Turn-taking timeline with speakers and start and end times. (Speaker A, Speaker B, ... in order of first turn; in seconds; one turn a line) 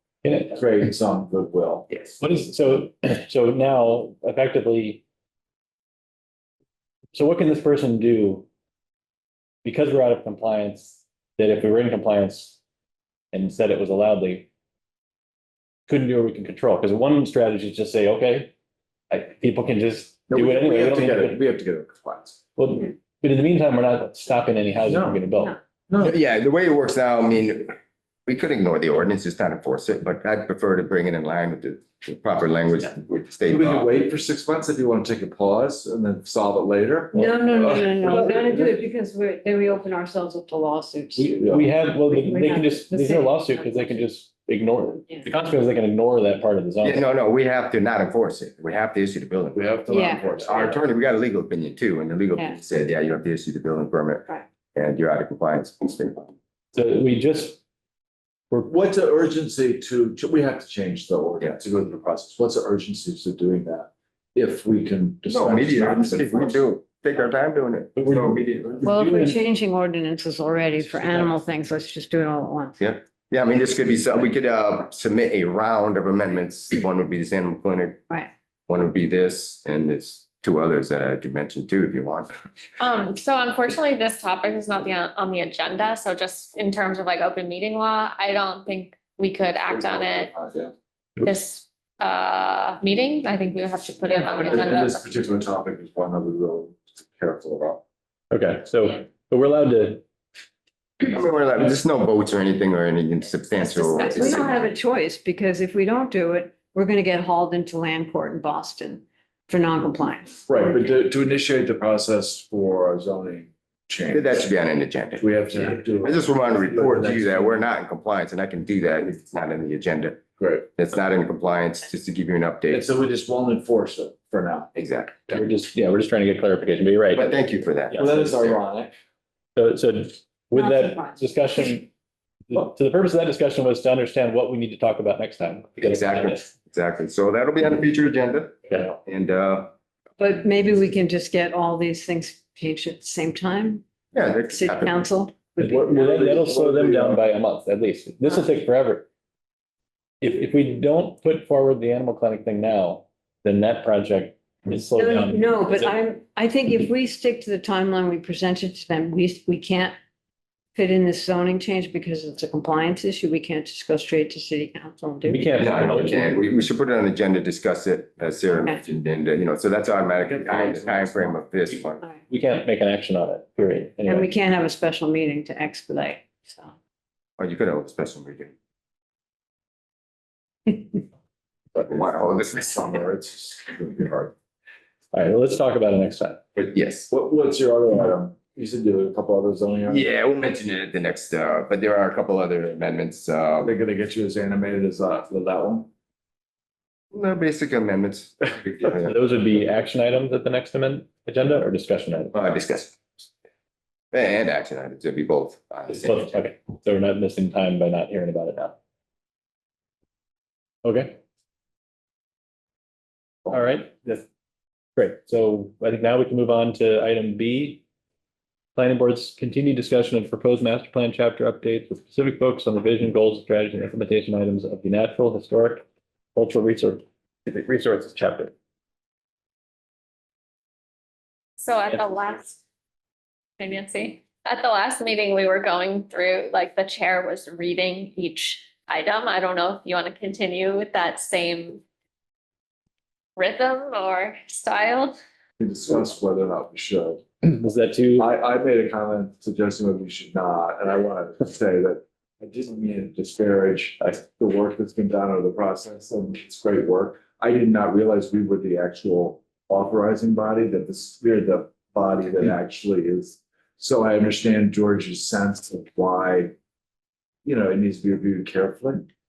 Speaker A: 0.2-0.6
Speaker B: 0.5-1.9
Speaker A: 2.2-5.0
Speaker A: 7.1-8.5
Speaker A: 9.6-12.6
Speaker A: 13.3-14.5
Speaker A: 15.9-18.5
Speaker A: 19.1-21.4
Speaker B: 20.3-22.4
Speaker A: 22.6-25.6
Speaker B: 24.8-25.3
Speaker B: 25.9-26.2
Speaker C: 26.0-34.0
Speaker B: 33.5-38.7
Speaker D: 37.1-44.0
Speaker A: 41.2-47.0
Speaker B: 41.4-41.7
Speaker C: 46.8-49.6
Speaker B: 49.5-50.8
Speaker D: 49.9-50.3
Speaker C: 50.4-56.3
Speaker D: 52.4-52.6
Speaker A: 56.8-57.6
Speaker B: 58.6-66.6
Speaker C: 65.3-68.8
Speaker A: 68.0-69.3
Speaker D: 68.8-72.8
Speaker A: 70.8-71.3
Speaker C: 72.8-78.0
Speaker C: 78.7-82.3
Speaker E: 82.8-90.3
Speaker B: 89.6-90.7
Speaker E: 91.2-95.0
Speaker B: 94.2-97.8
Speaker A: 98.3-100.0
Speaker C: 101.0-104.7
Speaker D: 103.6-110.8
Speaker B: 110.5-114.5
Speaker C: 114.1-120.2
Speaker B: 115.2-117.7
Speaker B: 120.4-120.7
Speaker C: 120.8-122.8
Speaker B: 122.7-124.7
Speaker C: 124.8-125.4
Speaker A: 125.3-127.3
Speaker C: 127.1-128.6
Speaker A: 127.9-128.2
Speaker B: 127.9-128.9
Speaker A: 129.6-131.9
Speaker D: 130.6-131.2
Speaker A: 132.5-136.4
Speaker C: 135.8-139.7
Speaker D: 140.2-143.8
Speaker C: 144.1-145.0
Speaker D: 144.5-145.9
Speaker A: 145.6-149.1
Speaker B: 145.7-147.2
Speaker A: 150.2-155.9
Speaker D: 155.0-159.9
Speaker D: 160.8-165.7
Speaker A: 165.3-166.4
Speaker C: 165.6-172.0
Speaker B: 170.2-171.4
Speaker A: 172.3-174.3
Speaker D: 174.1-176.7
Speaker C: 177.4-178.5
Speaker B: 181.8-184.3
Speaker C: 181.8-182.9
Speaker A: 185.1-186.4
Speaker C: 186.6-187.1
Speaker B: 187.1-190.1
Speaker C: 189.9-193.7
Speaker B: 193.6-195.9
Speaker C: 197.1-199.2
Speaker A: 199.0-202.3
Speaker C: 202.3-203.0
Speaker C: 204.1-206.2
Speaker A: 205.9-208.8
Speaker A: 210.8-211.2
Speaker A: 213.5-214.2
Speaker A: 215.0-217.8
Speaker A: 218.8-228.5
Speaker E: 231.6-232.6
Speaker E: 233.6-241.8
Speaker E: 243.4-245.2
Speaker B: 245.6-247.2
Speaker A: 247.4-248.3
Speaker B: 248.2-266.5
Speaker B: 267.4-269.1